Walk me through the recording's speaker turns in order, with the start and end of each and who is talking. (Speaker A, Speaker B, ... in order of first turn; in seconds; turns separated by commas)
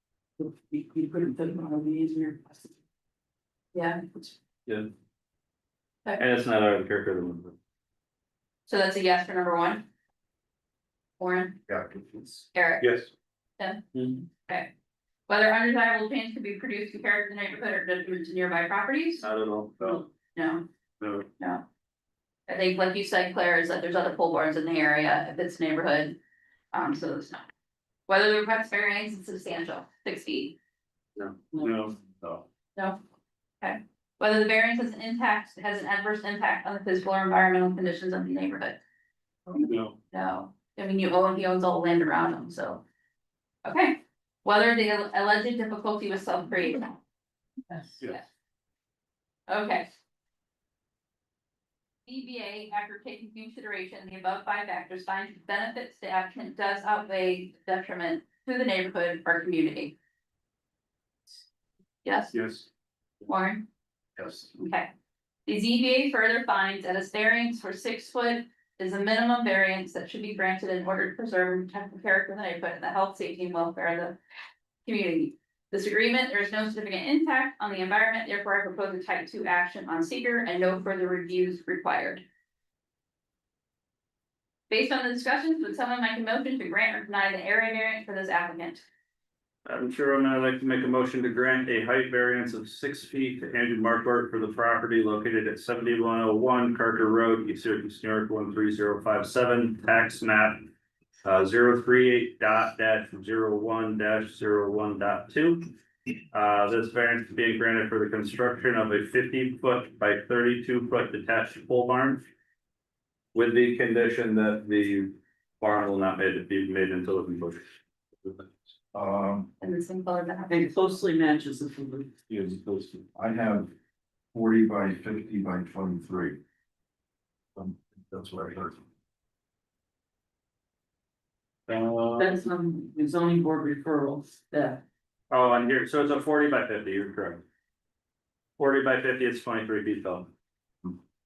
Speaker A: 0.4-2.7, Speaker B: 3.7-4.3, Speaker C: 6.2-7.5, Speaker B: 8.7-9.8, Speaker B: 11.2-11.6, Speaker D: 11.7-12.0, Speaker B: 12.5-12.9, Speaker C: 12.8-13.1, Speaker B: 14.4-14.7, Speaker B: 15.3-19.2, Speaker C: 19.2-20.0, Speaker B: 20.4-20.7, Speaker C: 21.0-21.3, Speaker B: 22.5-26.2, Speaker B: 26.7-27.5, Speaker B: 28.1-30.6, Speaker C: 31.2-32.4, Speaker B: 33.6-38.8, Speaker C: 39.6-40.0, Speaker B: 39.6-42.8, Speaker B: 43.6-47.0, Speaker B: 47.7-48.3, Speaker B: 49.5-49.9, Speaker B: 52.1-60.0, Speaker B: 62.0-62.4, Speaker C: 62.4-62.7, Speaker B: 63.3-63.6, Speaker D: 64.2-64.5, Speaker B: 64.5-64.9, Speaker B: 65.5-74.2, Speaker B: 74.8-82.2, Speaker B: 84.7-88.8, Speaker C: 89.7-100.6, Speaker C: 101.2-105.7, Speaker C: 106.3-112.2, Speaker C: 113.3-117.7, Speaker C: 118.2-118.5, Speaker D: 118.9-119.5, Speaker B: 119.6-120.6, Speaker A: 120.5-122.1, Speaker C: 122.3-123.0, Speaker D: 123.1-123.7, Speaker D: 124.3-126.4, Speaker D: 127.5-128.8, Speaker C: 131.7-132.3, Speaker A: 132.2-134.8, Speaker C: 135.3-137.4, Speaker C: 138.6-140.3